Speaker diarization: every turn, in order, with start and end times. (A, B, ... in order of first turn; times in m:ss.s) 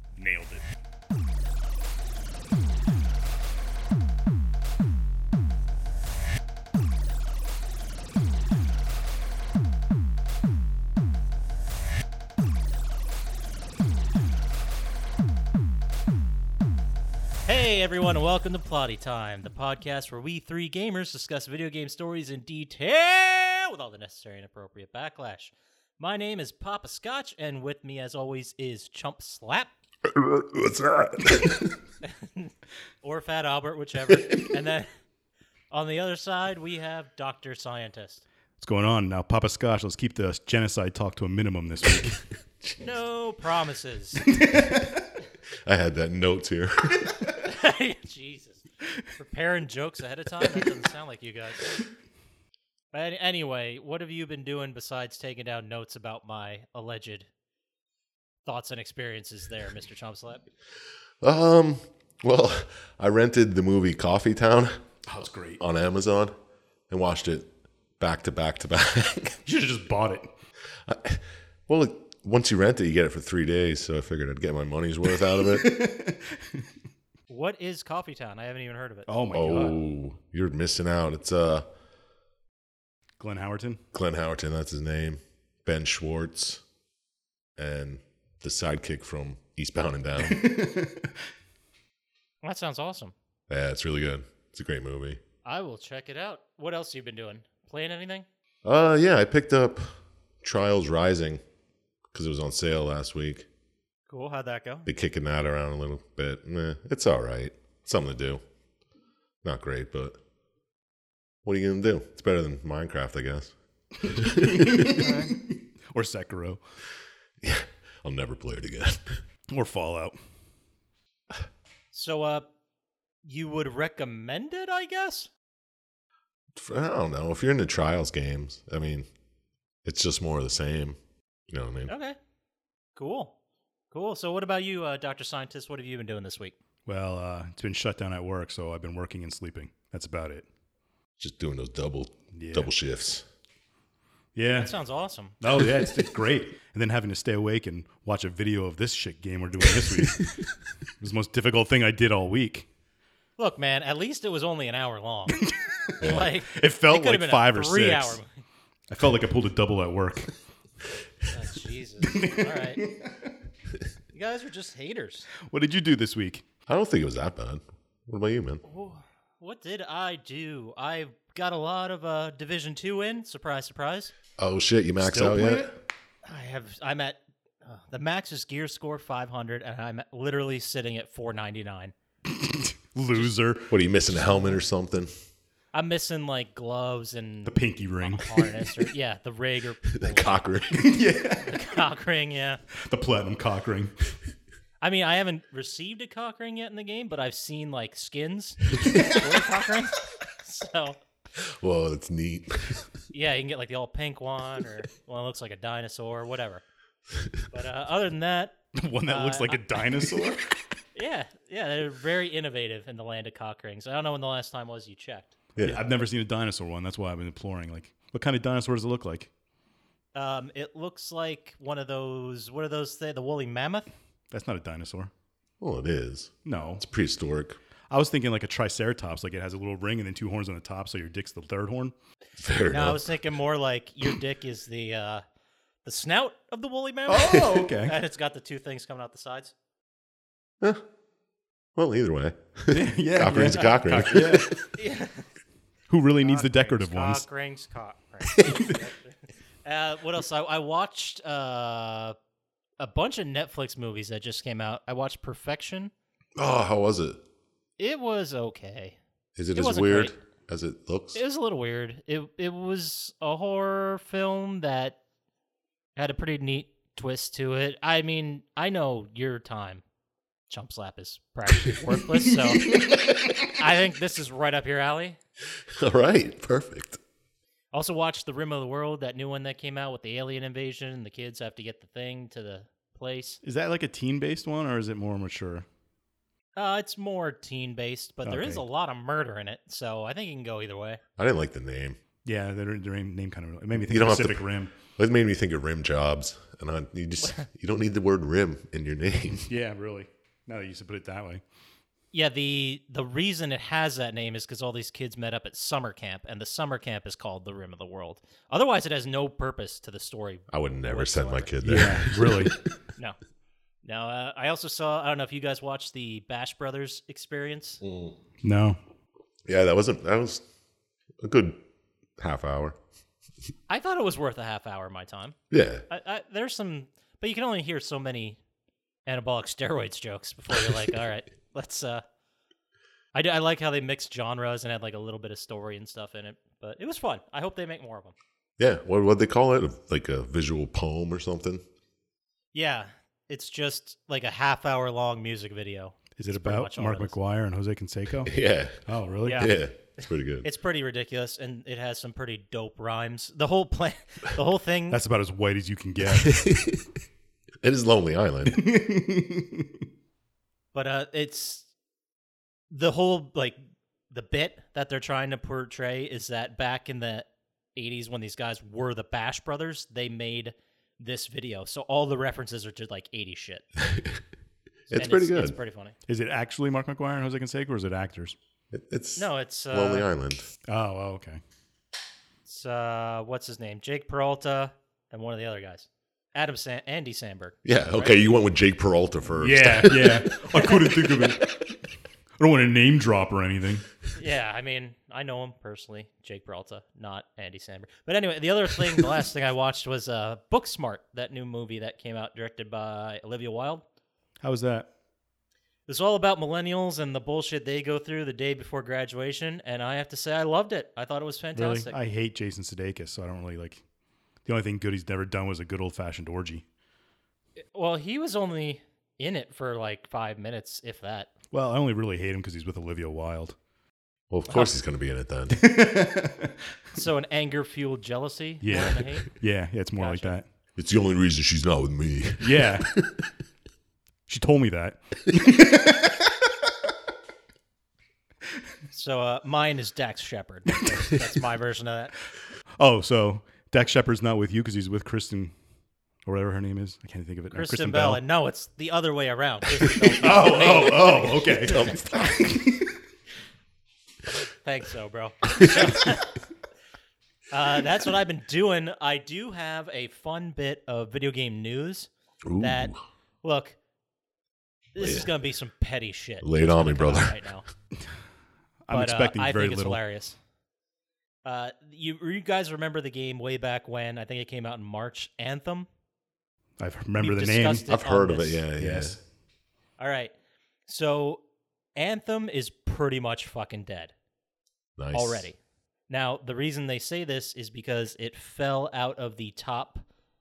0:00.2-0:00.6 A
0:17.4-0:29.7 B
0:30.0-0:31.7 C
0:32.0-0:34.9 B
0:35.7-0:38.2 B
0:38.6-0:42.2 A
0:42.6-0:42.9 C
0:42.8-0:44.2 B
0:44.2-0:45.0 A
0:45.6-0:47.2 C
0:47.4-0:51.8 B
0:52.9-0:57.3 B
0:58.4-1:00.4 B
1:01.2-1:04.8 C
1:05.0-1:05.6 A
1:05.6-1:06.3 C
1:06.9-1:09.4 C
1:09.4-1:10.3 A
1:10.8-1:15.7 C
1:15.3-1:16.6 A
1:17.3-1:19.7 B
1:19.1-1:19.8 A
1:19.3-1:21.6 C
1:23.2-1:23.8 A
1:23.9-1:26.6 C
1:27.6-1:30.5 C
1:30.2-1:31.1 A
1:32.4-1:33.1 B
1:33.5-1:35.2 C
1:35.4-1:38.2 B
1:38.6-1:39.9 C
1:40.4-1:41.4 C
1:42.1-1:43.5 C
1:44.1-1:44.9 B
1:44.8-1:48.4 C
1:49.4-1:50.2 C
1:51.4-1:55.1 C
1:54.2-1:56.6 A
1:55.0-1:55.3 B
1:57.4-1:59.2 C
1:59.5-2:00.1 A
2:01.9-2:02.5 B
2:03.2-2:05.3 B
2:06.5-2:09.1 C
2:09.8-2:11.0 C
2:11.5-2:11.9 C
2:11.9-2:12.2 B
2:13.0-2:13.3 B
2:13.9-2:16.5 B
2:16.9-2:20.5 A
2:21.2-2:23.2 C
2:22.3-2:22.7 A
2:24.3-2:24.7 A
2:24.6-2:25.4 B
2:25.4-2:30.4 A
2:31.0-2:32.7 A
2:33.4-2:35.4 B
2:35.3-2:38.2 A
2:36.0-2:38.3 B
2:36.0-2:36.3 C
2:38.9-2:40.3 A
2:41.3-2:42.8 B
2:42.0-2:43.3 A
2:44.1-2:45.3 B
2:45.4-2:46.4 A
2:46.7-2:48.6 C
2:48.6-2:54.1 B
2:54.4-2:55.7 C
2:55.0-2:55.7 A
2:56.2-3:01.9 B
3:02.3-3:04.6 A
3:03.7-3:05.1 C
3:05.7-3:10.5 B
3:07.4-3:08.7 A
3:09.9-3:10.9 C
3:10.7-3:11.8 A
3:11.5-3:12.6 B
3:12.8-3:13.9 A
3:14.8-3:21.0 B
3:21.4-3:22.9 C
3:23.1-3:26.6 B
3:27.5-3:29.6 B
3:28.7-3:30.6 A
3:30.9-3:35.4 B
3:35.6-3:35.8 C
3:35.6-3:39.3 A
3:40.1-3:43.9 B
3:44.3-3:45.1 A
3:45.6-3:47.6 C
3:46.4-3:46.8 A
3:47.9-3:51.9 A
3:52.4-3:53.0 C
3:52.7-3:55.2 B
3:55.8-3:59.5 B
3:57.1-3:58.0 A
4:01.8-4:04.7 C
4:02.7-4:04.6 A
4:04.1-4:05.2 B
4:05.9-4:07.2 A
4:06.2-4:12.2 B
4:08.4-4:08.7 A
4:12.8-4:15.9 B
4:16.4-4:17.2 C
4:17.8-4:19.0 B
4:19.4-4:21.2 C
4:19.5-4:20.2 B
4:21.1-4:25.0 B
4:26.0-4:29.8 B
4:30.5-4:35.2 B
4:35.8-4:37.0 C
4:37.7-4:43.4 B
4:43.4-4:45.6 A
4:46.6-4:51.0 B
4:48.2-4:48.6 A
4:51.2-4:52.0 C
4:52.2-4:54.7 A
4:53.8-4:59.5 C
4:59.5-5:01.4 A
5:02.1-5:12.1 B
5:10.5-5:12.7 C
5:11.6-5:12.5 A
5:13.8-5:17.8 B
5:17.8-5:18.1 C
5:18.4-5:18.8 A
5:19.4-5:20.4 C
5:21.2-5:21.6 C
5:22.2-5:22.8 C
5:23.7-5:25.4 B
5:25.5-5:25.8 C
5:25.9-5:28.4 B
5:29.0-5:32.0 B
5:33.1-5:38.1 B
5:38.6-5:41.6 C
5:42.5-5:47.1 B
5:46.2-5:48.3 A
5:48.2-5:48.8 C
5:48.8-5:49.5 A
5:49.2-5:55.0 B
5:49.3-5:50.5 C
5:54.9-5:56.5 A
5:56.2-5:56.8 C
5:57.6-5:58.6 C
5:58.4-5:59.7 A
6:00.7-6:01.6 B
6:02.7-6:03.6 B
6:04.1-6:13.6 B
6:13.8-6:14.2 C
6:14.9-6:15.6 C
6:14.9-6:15.9 B
6:16.1-6:18.4 A
6:18.7-6:20.5 C
6:19.2-6:20.1 B
6:20.7-6:21.4 A
6:22.4-6:28.2 B
6:27.6-6:30.7 C
6:29.4-6:31.5 A
6:30.5-6:30.8 B
6:32.4-6:33.9 A
6:34.1-6:43.8 B
6:44.4-6:44.9 A
6:45.9-6:51.9 B
6:51.5-6:53.8 A
6:54.4-6:56.6 A
6:57.7-7:01.3 B
7:01.5-7:03.6 A
7:04.3-7:05.7 C
7:05.5-7:06.6 A
7:06.9-7:09.4 B
7:08.6-7:10.5 A
7:10.0-7:10.3 B
7:10.8-7:13.2 C
7:12.4-7:12.9 A
7:14.3-7:16.3 A
7:18.9-7:22.2 B
7:22.8-7:25.5 A
7:26.2-7:28.2 A
7:27.5-7:32.3 B
7:30.2-7:33.0 A
7:31.6-7:32.5 C
7:34.4-7:36.3 B
7:35.5-7:36.0 C
7:37.5-7:43.8 B
7:42.4-7:43.0 C
7:44.9-7:47.6 B
7:45.0-7:45.3 C
7:46.4-7:47.4 C
7:48.9-7:50.0 A
7:48.9-7:50.4 B
7:51.4-7:55.9 B
7:56.8-7:57.9 A
7:57.2-7:58.6 B
7:57.9-7:59.2 C
7:58.8-7:59.2 A
8:00.0-8:00.3 B
8:00.9-8:01.4 B
8:02.0-8:04.1 B
8:05.0-8:05.5 C
8:05.1-8:05.6 B
8:06.1-8:10.0 B